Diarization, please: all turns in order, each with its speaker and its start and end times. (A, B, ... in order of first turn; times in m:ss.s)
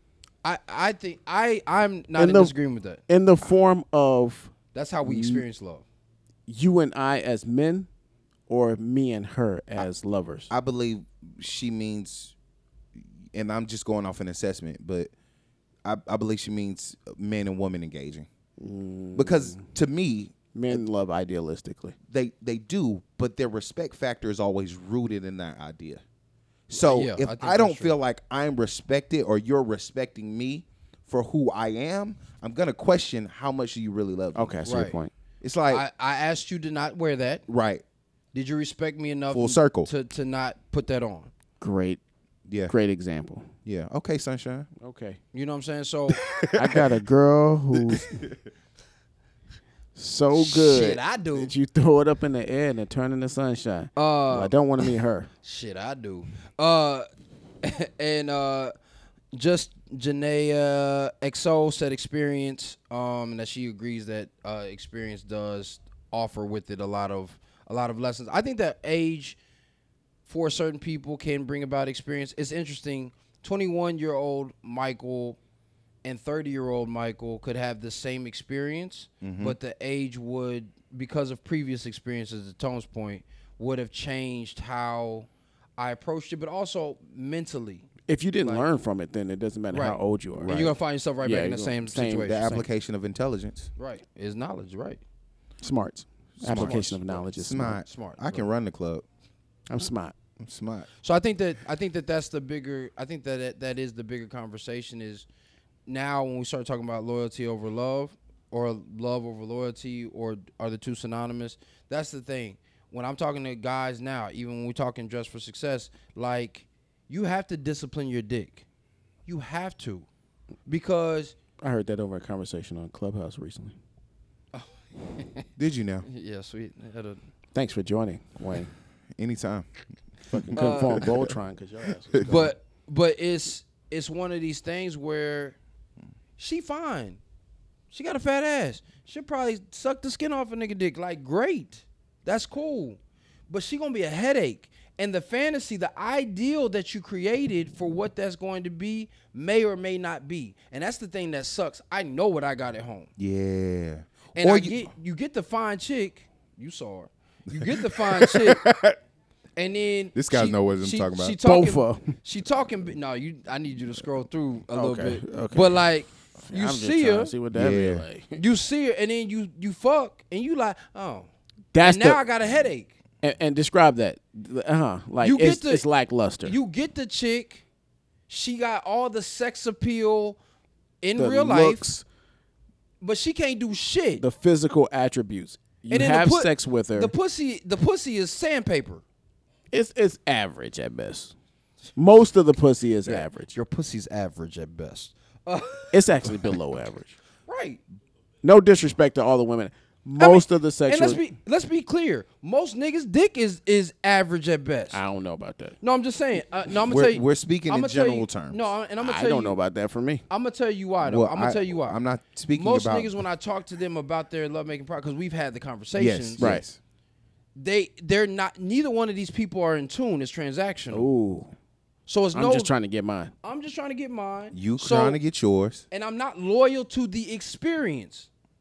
0:00.4-0:03.0 A
0:02.2-0:02.5 B
0:03.1-0:04.5 B
0:04.7-0:05.8 A
0:05.0-0:05.4 B
0:06.5-0:07.9 B
0:08.5-0:10.5 B
0:10.5-0:12.3 C
0:13.0-0:15.1 C
0:15.8-0:18.3 C
0:18.6-0:19.6 B
0:19.2-0:20.8 C
0:20.5-0:22.0 B
0:22.1-0:26.0 C
0:26.7-0:34.7 C
0:26.7-0:28.0 A
0:34.4-0:35.1 B
0:34.7-0:35.0 A
0:35.4-0:35.8 C
0:35.7-0:37.4 A
0:37.5-0:37.8 C
0:38.3-0:41.3 A
0:39.3-0:39.9 C
0:41.6-0:42.0 B
0:42.5-0:42.7 C
0:42.7-0:43.5 B
0:43.7-0:44.7 C
0:44.8-0:45.2 B
0:45.3-0:46.2 A
0:46.1-0:46.8 C
0:46.5-0:48.2 B
0:47.9-0:48.2 C
0:50.0-0:55.3 B
0:50.3-0:51.5 A
0:54.0-0:54.6 A
0:55.4-0:57.1 A
0:57.6-0:58.7 A
0:59.3-1:09.4 A
1:10.3-1:15.4 A
1:16.0-1:27.9 A
1:19.2-1:19.6 C
1:28.1-1:30.6 B
1:28.4-1:28.7 A
1:29.7-1:32.4 A
1:30.4-1:30.8 C
1:31.2-1:32.7 B
1:32.2-1:33.7 C
1:33.8-1:35.0 A
1:35.6-1:37.8 B
1:36.4-1:39.0 C
1:36.4-1:37.2 A
1:37.8-1:38.5 A
1:39.7-1:40.2 B
1:40.4-1:40.9 C
1:41.0-1:45.3 A
1:45.9-1:58.6 A
1:59.3-2:00.1 A
2:00.7-2:01.4 A
2:01.6-2:03.8 B
2:04.5-2:05.5 A
2:05.6-2:06.1 C
2:06.0-2:07.3 A
2:07.5-2:08.7 B
2:09.2-2:09.7 C
2:10.3-2:12.4 B
2:10.3-2:11.3 C
2:10.6-2:11.1 A
2:12.1-2:12.4 C
2:12.2-2:15.6 A
2:16.4-2:17.2 A
2:17.9-2:33.1 A
2:33.2-2:34.9 C
2:34.4-2:38.7 A
2:37.6-2:39.0 C
2:39.6-2:47.3 A
2:40.2-2:41.4 C
2:41.4-2:42.2 B
2:44.7-2:48.4 B
2:47.5-2:48.0 C
2:48.4-2:53.0 A
2:51.7-2:52.2 B
2:53.2-2:56.6 B
2:55.2-2:55.8 A
2:56.4-2:57.6 A
2:58.3-3:00.4 A
3:01.0-3:01.9 A
3:01.2-3:02.0 B
3:03.0-3:04.2 A
3:04.2-3:07.1 B
3:05.9-3:09.0 A
3:09.7-3:11.3 B
3:12.0-3:13.6 B
3:13.0-3:16.6 A
3:15.9-3:17.2 B
3:17.5-3:17.8 A
3:18.4-3:21.2 B
3:20.2-3:25.0 A
3:24.9-3:25.8 B
3:25.8-3:29.6 A
3:26.9-3:28.7 C
3:29.0-3:30.2 B
3:30.3-3:32.0 A
3:31.0-3:33.2 C
3:32.5-3:36.5 A
3:36.0-3:36.8 C
3:36.4-3:36.6 B
3:37.6-3:41.1 A
3:40.9-3:41.5 B
3:42.1-3:42.7 A
3:42.3-3:43.3 B
3:43.4-3:45.2 A
3:44.5-3:45.8 C
3:45.9-3:48.3 A